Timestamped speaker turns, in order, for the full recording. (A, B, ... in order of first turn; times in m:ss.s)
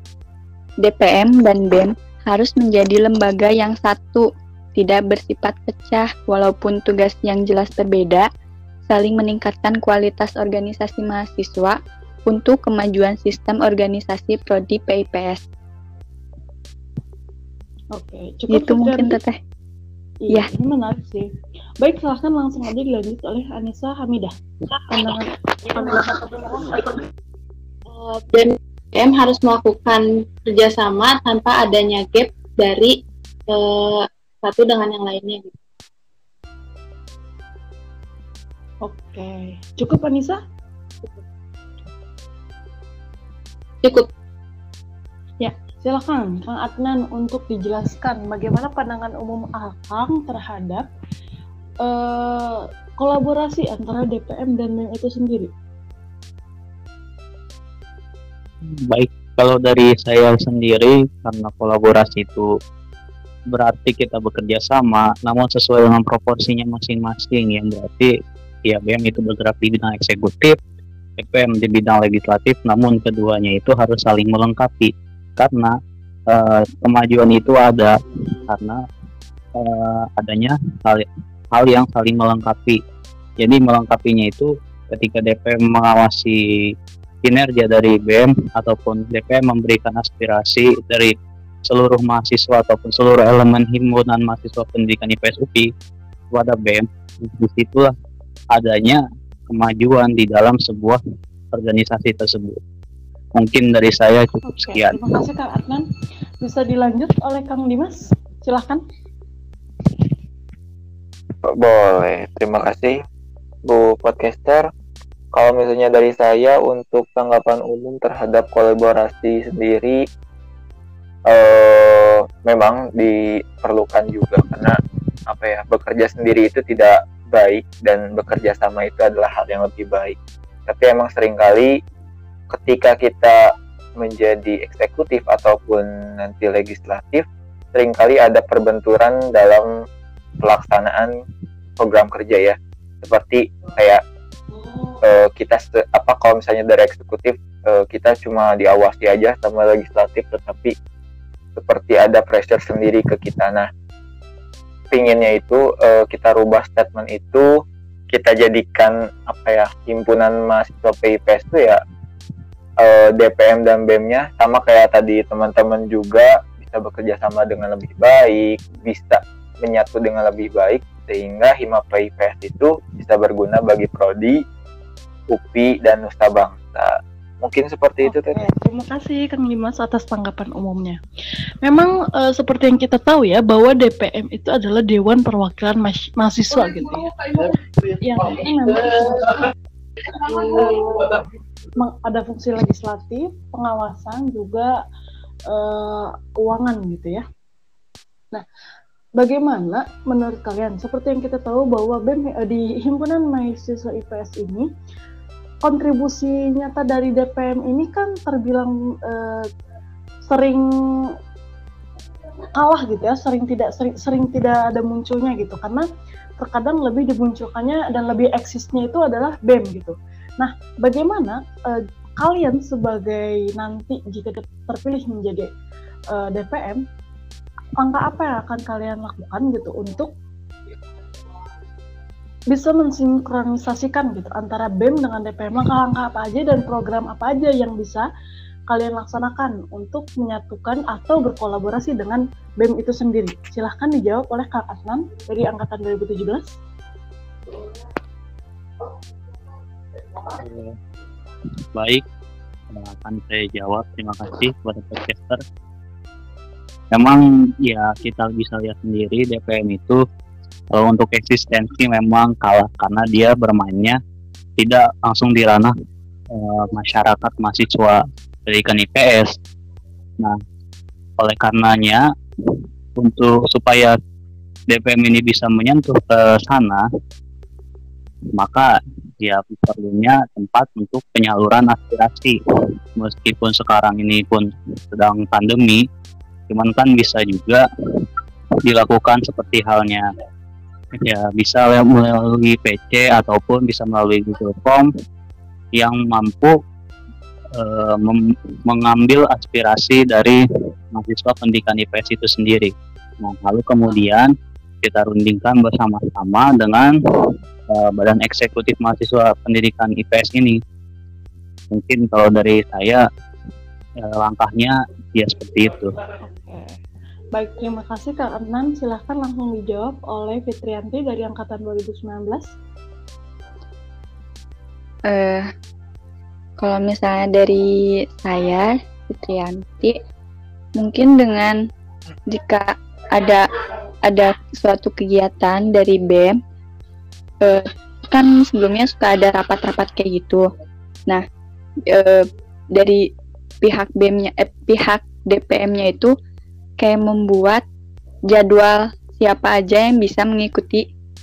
0:00.8-0:08.3 A
0:08.9-0:15.4 A
0:17.9-0:19.2 B
0:18.5-0:19.4 A
0:20.2-0:21.3 B
0:21.8-0:24.3 B
0:24.9-0:26.9 B
0:27.9-0:33.0 C
0:33.5-0:35.6 C
0:38.8-0:40.4 B
0:43.8-0:44.1 C
0:45.4-0:50.9 B
0:51.8-0:55.5 B
0:58.8-1:02.5 D
1:03.5-1:08.1 D
1:08.7-1:10.6 D
1:11.2-1:15.8 D
1:16.3-1:18.8 D
1:19.6-1:22.8 D
1:23.4-1:26.4 D
1:27.2-1:31.1 D
1:31.7-1:35.7 D
1:36.3-1:37.9 D
1:38.5-1:41.0 D
1:41.5-1:42.6 D
1:43.4-1:45.0 D
1:44.5-1:45.8 B
1:46.4-1:48.8 B
1:51.4-1:53.0 E
1:53.7-1:54.7 E
1:55.3-2:00.0 E
2:01.3-2:04.8 E
2:05.3-2:10.2 E
2:10.7-2:11.8 E
2:12.5-2:19.8 E
2:20.4-2:21.2 E
2:21.8-2:24.0 E
2:25.0-2:30.8 E
2:31.6-2:33.7 E
2:34.9-2:41.8 E
2:42.8-2:54.4 E
2:55.3-2:58.4 E
2:58.0-3:01.0 B
3:01.6-3:09.5 B
3:10.5-3:14.8 B
3:15.5-3:17.2 B
3:19.2-3:24.7 B
3:25.6-3:29.5 B
3:30.2-3:30.7 B
3:32.6-3:35.9 B
3:36.4-3:45.5 B
3:46.1-3:46.8 B
3:47.8-3:50.1 B
3:52.5-3:58.1 B
3:58.7-4:06.6 B
4:10.4-4:10.8 D
4:11.8-4:12.0 D
4:12.7-4:15.4 D
4:16.9-4:20.0 D
4:20.7-4:24.0 D
4:24.6-4:25.7 D
4:26.3-4:29.3 D
4:31.2-4:32.0 D
4:33.0-4:34.0 D
4:34.7-4:36.8 D
4:38.4-4:42.4 D
4:43.0-4:45.8 D
4:46.5-4:48.0 D
4:48.6-4:50.1 D
4:51.0-4:54.9 D
4:55.8-4:56.6 D
4:57.6-5:00.4 D
5:01.0-5:04.3 D
5:04.8-5:06.9 D
5:07.7-5:10.6 D
5:11.7-5:13.0 D
5:14.0-5:16.0 D
5:16.2-5:16.8 B
5:17.3-5:22.4 B
5:25.1-5:25.5 A
5:26.6-5:27.7 A
5:28.2-5:30.0 A
5:30.8-5:31.6 A
5:32.3-5:33.5 A
5:34.1-5:36.4 A
5:37.4-5:40.4 A
5:41.9-5:43.0 A
5:43.6-5:46.1 A
5:46.8-5:47.6 A
5:48.3-5:50.8 A